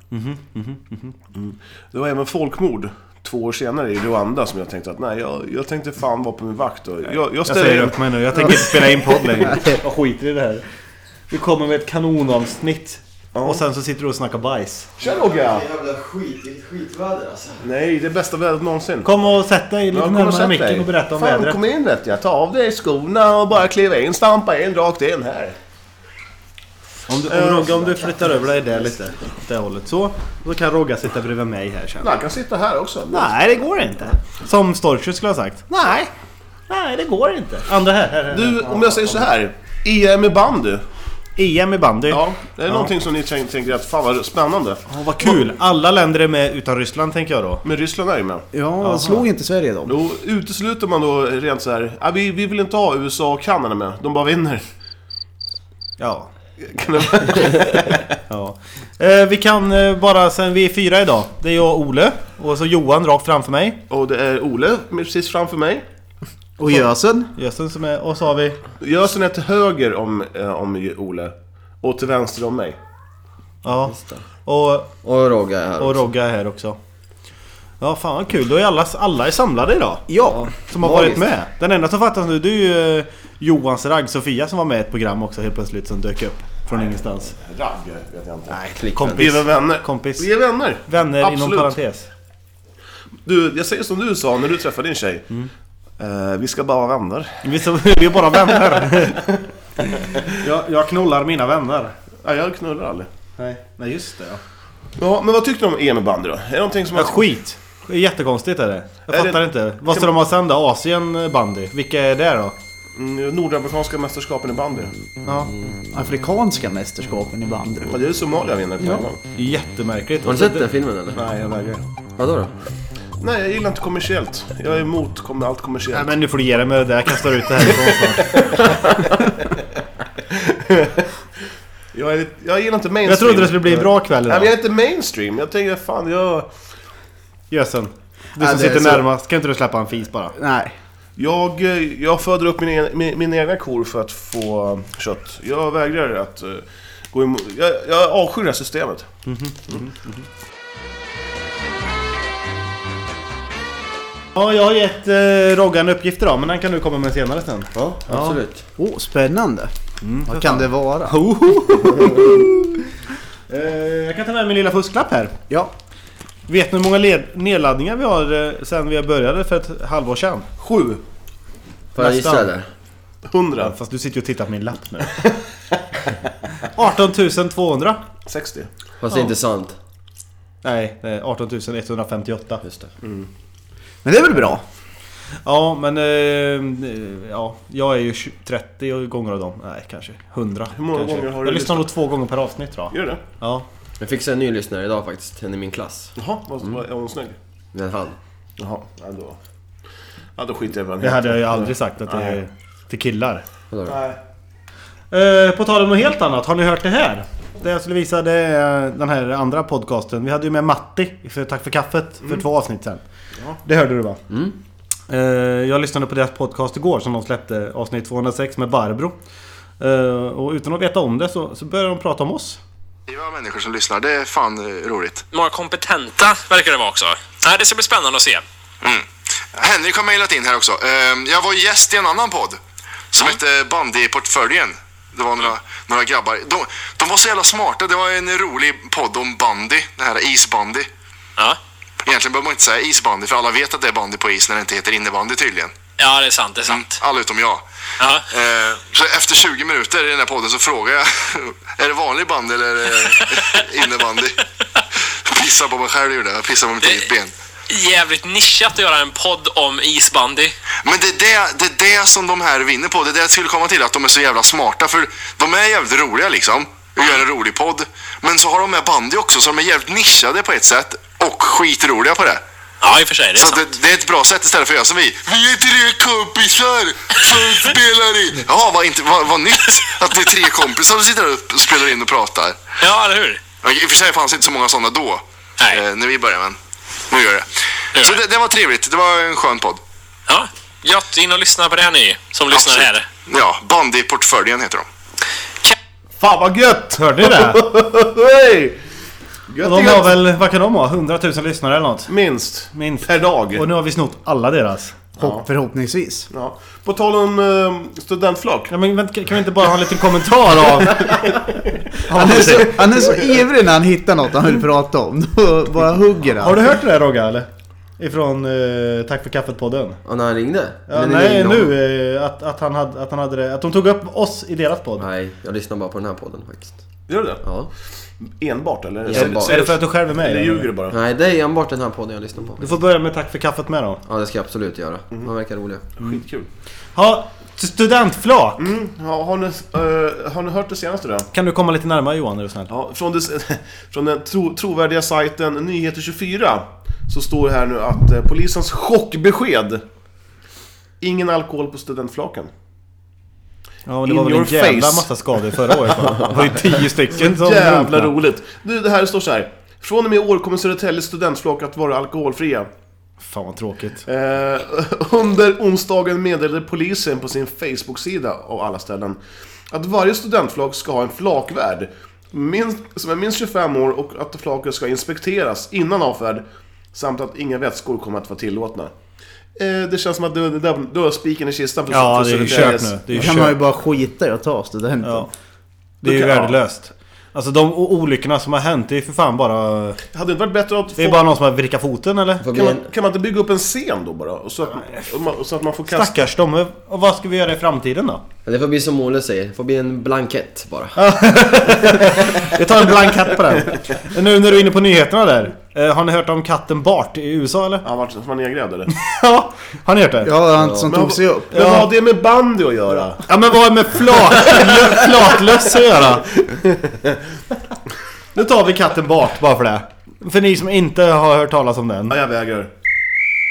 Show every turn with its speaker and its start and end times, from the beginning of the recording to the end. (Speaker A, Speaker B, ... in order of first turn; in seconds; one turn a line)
Speaker A: 0.1-1.1
Speaker B: 1.3-8.7
Speaker A: 7.4-10.6
Speaker A: 11.3-14.9
Speaker B: 13.3-13.6
Speaker B: 15.0-15.7
Speaker C: 15.0-17.6
Speaker B: 17.6-19.1
Speaker A: 19.0-21.6
Speaker B: 19.9-25.6
Speaker A: 27.1-32.1
Speaker B: 27.2-28.1
Speaker B: 32.0-33.3
Speaker A: 33.1-36.1
Speaker A: 36.7-39.3
Speaker B: 38.3-40.8
Speaker A: 41.4-42.9
Speaker B: 42.1-45.4
Speaker A: 44.9-47.6
Speaker B: 47.6-48.5
Speaker D: 48.5-50.0
Speaker A: 48.8-49.2
Speaker B: 49.9-54.7
Speaker A: 56.0-56.3
Speaker B: 56.6-58.1
Speaker A: 58.3-63.8
Speaker B: 63.9-65.8
Speaker D: 66.6-67.3
Speaker A: 67.3-68.6
Speaker B: 68.8-72.8
Speaker A: 73.6-74.9
Speaker C: 73.8-74.2
Speaker C: 75.0-76.1
Speaker A: 75.8-76.8
Speaker A: 77.8-87.3
Speaker D: 80.1-80.5
Speaker C: 80.2-81.2
Speaker B: 86.7-88.6
Speaker A: 88.5-90.3
Speaker C: 88.8-89.4
Speaker B: 89.1-91.8
Speaker A: 90.8-92.1
Speaker B: 93.2-95.3
Speaker B: 96.0-97.5
Speaker A: 97.4-99.3
Speaker B: 98.5-99.3
Speaker A: 100.3-102.0
Speaker B: 102.2-103.1
Speaker A: 103.4-104.4
Speaker B: 105.0-107.2
Speaker A: 106.9-112.5
Speaker B: 109.1-110.1
Speaker B: 113.0-114.9
Speaker A: 115.2-115.5
Speaker C: 115.5-115.7
Speaker D: 115.9-118.0
Speaker B: 117.9-119.2
Speaker D: 118.8-119.0
Speaker A: 119.3-120.7
Speaker C: 120.2-121.3
Speaker B: 121.1-121.8
Speaker C: 122.2-122.5
Speaker B: 123.2-126.2
Speaker A: 125.9-128.7
Speaker B: 127.6-128.6
Speaker B: 130.3-131.1
Speaker B: 131.9-136.5
Speaker A: 133.0-134.5
Speaker A: 137.5-140.3
Speaker D: 138.4-139.1
Speaker D: 140.3-140.7
Speaker B: 141.2-149.1
Speaker A: 149.2-150.2
Speaker A: 154.3-158.4
Speaker C: 157.8-158.6
Speaker D: 158.8-159.7
Speaker A: 160.0-162.8
Speaker D: 160.2-161.2
Speaker A: 163.5-165.3
Speaker A: 166.5-170.5
Speaker B: 170.6-171.0
Speaker C: 171.9-172.7
Speaker A: 172.0-172.5
Speaker B: 173.2-173.7
Speaker A: 173.6-175.2
Speaker B: 175.2-175.7
Speaker A: 176.6-178.0
Speaker B: 178.2-178.7
Speaker C: 179.0-179.8
Speaker A: 180.6-182.6
Speaker C: 182.6-182.9
Speaker B: 183.0-183.3
Speaker D: 184.0-184.6
Speaker A: 185.4-193.6
Speaker B: 190.7-191.9
Speaker B: 192.9-193.2
Speaker C: 194.0-196.7
Speaker B: 196.2-197.4
Speaker C: 197.7-198.2
Speaker B: 198.6-199.4
Speaker B: 200.3-202.4
Speaker A: 201.0-203.4
Speaker C: 203.7-204.0
Speaker B: 203.8-204.2
Speaker A: 205.1-213.0
Speaker A: 213.6-214.2
Speaker C: 214.3-214.5
Speaker A: 215.1-219.2
Speaker A: 219.8-222.6
Speaker E: 223.1-225.2
Speaker F: 225.3-228.4
Speaker E: 228.8-232.6
Speaker E: 233.1-240.9
Speaker E: 242.0-245.7
Speaker F: 246.0-247.0
Speaker E: 246.7-247.6
Speaker F: 248.0-248.3
Speaker E: 248.3-254.4
Speaker F: 253.0-253.6
Speaker E: 255.0-257.3
Speaker F: 256.8-257.1
Speaker F: 257.7-260.5
Speaker E: 260.8-272.4
Speaker F: 272.8-273.7
Speaker E: 273.3-282.6
Speaker F: 282.8-283.4
Speaker E: 283.6-286.6
Speaker E: 287.1-289.8
Speaker F: 290.3-293.1
Speaker E: 292.5-294.9
Speaker B: 296.2-298.8
Speaker A: 297.0-297.7
Speaker B: 299.5-300.2
Speaker A: 299.6-302.1
Speaker B: 302.1-303.7
Speaker A: 302.7-305.0
Speaker D: 305.2-306.3
Speaker B: 305.2-305.4
Speaker B: 306.3-308.7
Speaker A: 308.7-313.1
Speaker D: 312.1-316.7
Speaker A: 316.4-320.0
Speaker C: 320.0-321.7
Speaker A: 320.9-325.0
Speaker C: 325.0-326.8
Speaker B: 327.1-327.4
Speaker C: 327.4-327.7
Speaker B: 328.3-330.9
Speaker C: 329.0-329.7
Speaker A: 329.1-330.7
Speaker C: 330.9-332.8
Speaker A: 332.6-334.0
Speaker C: 334.1-335.9
Speaker B: 336.0-336.5
Speaker A: 336.9-338.6
Speaker B: 338.6-341.3
Speaker A: 341.3-342.7
Speaker B: 342.7-349.8
Speaker B: 351.0-352.5
Speaker A: 353.9-358.1
Speaker B: 354.0-356.2
Speaker B: 357.1-362.7
Speaker A: 363.2-364.0
Speaker B: 364.0-369.2
Speaker B: 369.7-378.9
Speaker B: 379.6-383.4
Speaker A: 381.9-383.6
Speaker D: 383.1-385.3
Speaker A: 385.0-385.3
Speaker B: 386.0-386.6
Speaker A: 386.0-390.0
Speaker B: 390.1-391.2
Speaker A: 391.0-392.4
Speaker C: 392.4-392.8
Speaker B: 392.5-396.1
Speaker A: 395.9-398.2
Speaker C: 398.4-401.0
Speaker A: 400.9-407.9
Speaker B: 407.8-408.9
Speaker A: 408.9-410.4
Speaker D: 410.2-411.5
Speaker C: 410.6-410.9
Speaker B: 410.9-413.2
Speaker A: 411.5-411.9
Speaker A: 413.2-416.4
Speaker B: 416.5-417.1
Speaker A: 418.3-422.2
Speaker B: 422.1-422.7